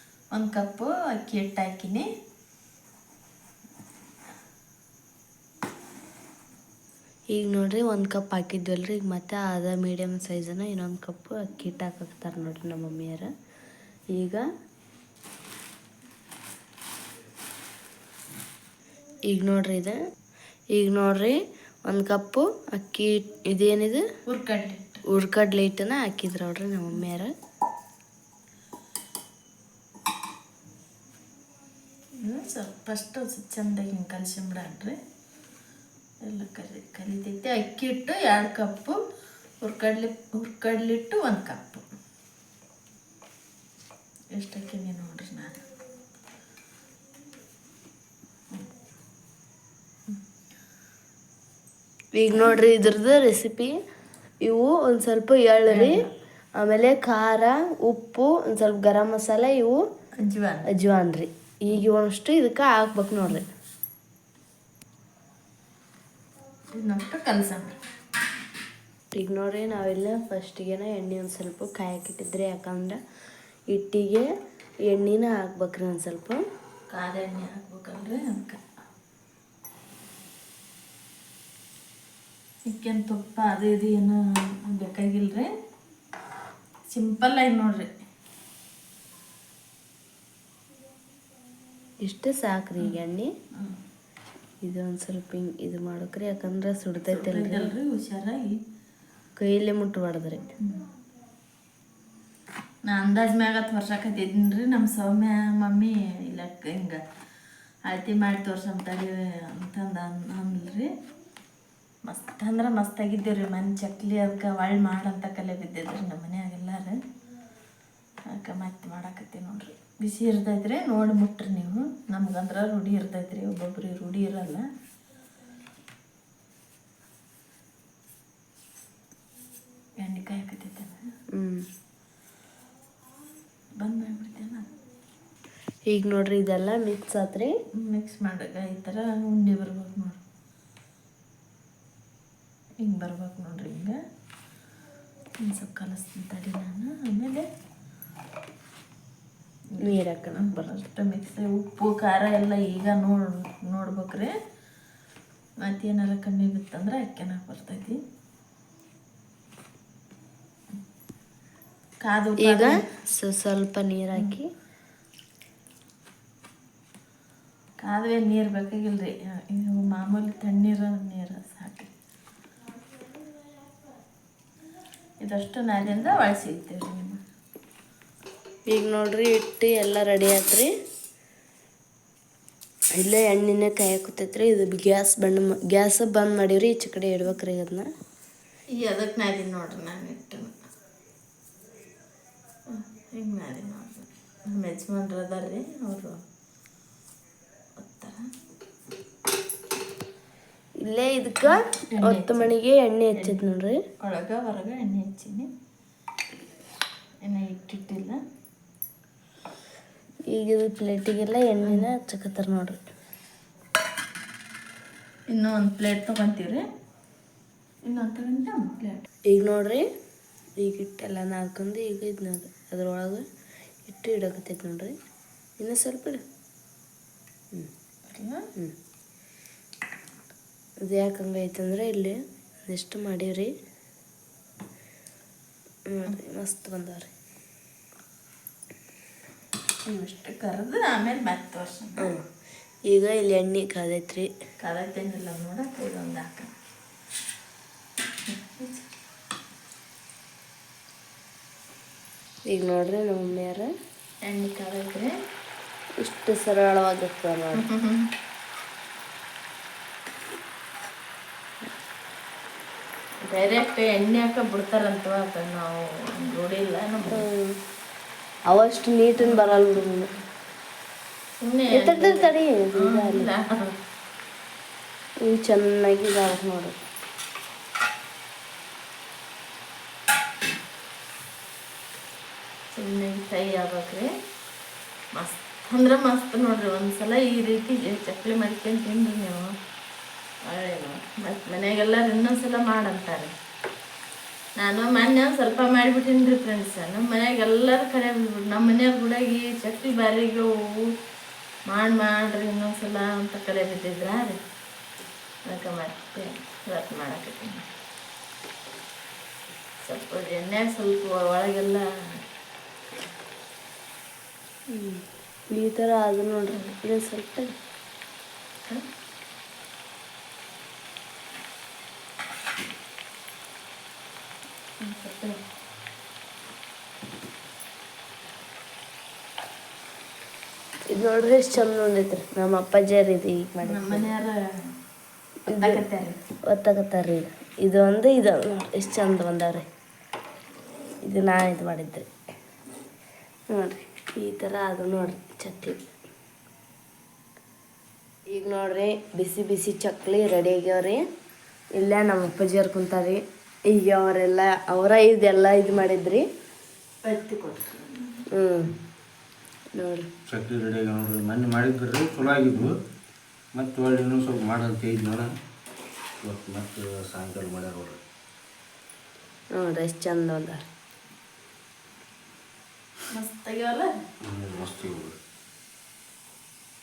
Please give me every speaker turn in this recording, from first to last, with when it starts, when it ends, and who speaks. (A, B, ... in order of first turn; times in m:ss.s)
0:00.3-0:02.1 A
0:07.3-0:13.3 B
0:14.1-0:14.4 B
0:19.3-0:20.0 B
0:20.7-0:24.0 B
0:24.2-0:25.0 A
0:25.1-0:27.3 B
0:32.2-0:35.0 A
0:36.2-0:39.0 A
0:39.6-0:41.8 A
0:44.3-0:45.6 A
0:52.1-0:53.8 B
0:54.4-0:56.0 B
0:55.6-0:56.1 A
0:56.6-0:59.8 B
1:00.1-1:00.7 A
1:00.7-1:03.5 B
1:06.7-1:07.8 A
1:09.1-1:13.0 B
1:13.7-1:14.2 B
1:14.8-1:16.4 B
1:16.9-1:18.6 A
1:22.6-1:25.5 A
1:26.9-1:27.9 A
1:32.0-1:33.3 B
1:34.6-1:37.7 B
1:37.1-1:38.6 A
1:39.4-1:40.5 B
1:42.8-1:47.0 A
1:47.8-1:50.9 A
1:52.0-1:57.0 A
1:58.3-2:04.6 A
2:10.0-2:11.0 A
2:11.3-2:11.6 B
2:13.8-2:14.7 A
2:15.9-2:17.5 B
2:17.8-2:20.2 A
2:22.8-2:24.0 A
2:25.4-2:27.4 A
2:29.7-2:34.3 A
2:29.8-2:30.7 B
2:35.6-2:38.0 A
2:42.0-2:42.8 A
2:42.4-2:44.5 B
2:47.8-2:51.9 A
2:55.2-2:57.2 A
2:58.7-3:00.7 B
3:02.9-3:07.9 B
3:08.7-3:10.5 A
3:12.7-3:16.2 A
3:17.8-3:18.3 A
3:20.8-3:23.8 B
3:21.4-3:22.5 A
3:23.1-3:23.4 A
3:24.0-3:25.5 A
3:27.2-3:28.2 A
3:30.2-3:32.8 B
3:31.6-3:31.9 A
3:35.3-3:36.6 A
3:37.8-3:39.0 A
3:39.3-3:39.9 B
3:40.6-3:43.2 B
3:43.8-3:45.0 B
3:45.6-3:46.2 B
3:48.1-3:48.4 A
3:50.8-3:53.5 B
3:55.9-3:57.1 B
3:59.8-4:02.1 A
4:02.9-4:04.3 B
4:04.6-4:06.5 A
4:08.3-4:08.8 A
4:12.5-4:13.7 B
4:14.2-4:15.1 A
4:16.0-4:17.6 B
4:17.6-4:18.1 A
4:23.2-4:27.2 A
4:27.1-4:27.6 B
4:28.5-4:30.1 B
4:29.2-4:29.8 A
4:31.4-4:33.7 A
4:31.7-4:33.3 B
4:35.2-4:36.8 B
4:42.7-4:44.1 A
4:45.1-4:49.5 A
4:50.4-4:53.3 A
4:54.6-5:00.9 A
5:01.7-5:04.4 A
5:05.4-5:07.6 A
5:09.8-5:12.2 A
5:14.7-5:17.5 B
5:24.8-5:25.4 A
5:30.9-5:34.1 B
5:33.6-5:34.7 A
5:35.5-5:35.8 B
5:35.5-5:36.2 A
5:36.4-5:39.6 B
5:41.0-5:42.1 B
5:43.5-5:45.8 B
5:48.3-5:51.0 B
5:51.8-5:56.2 B
5:57.0-5:58.2 A
5:58.3-5:58.7 B
5:59.7-6:00.1 B
6:00.3-6:02.7 C
6:03.5-6:05.3 C
6:06.2-6:08.0 C
6:09.5-6:10.6 B
6:13.1-6:13.9 A
6:14.2-6:15.2 C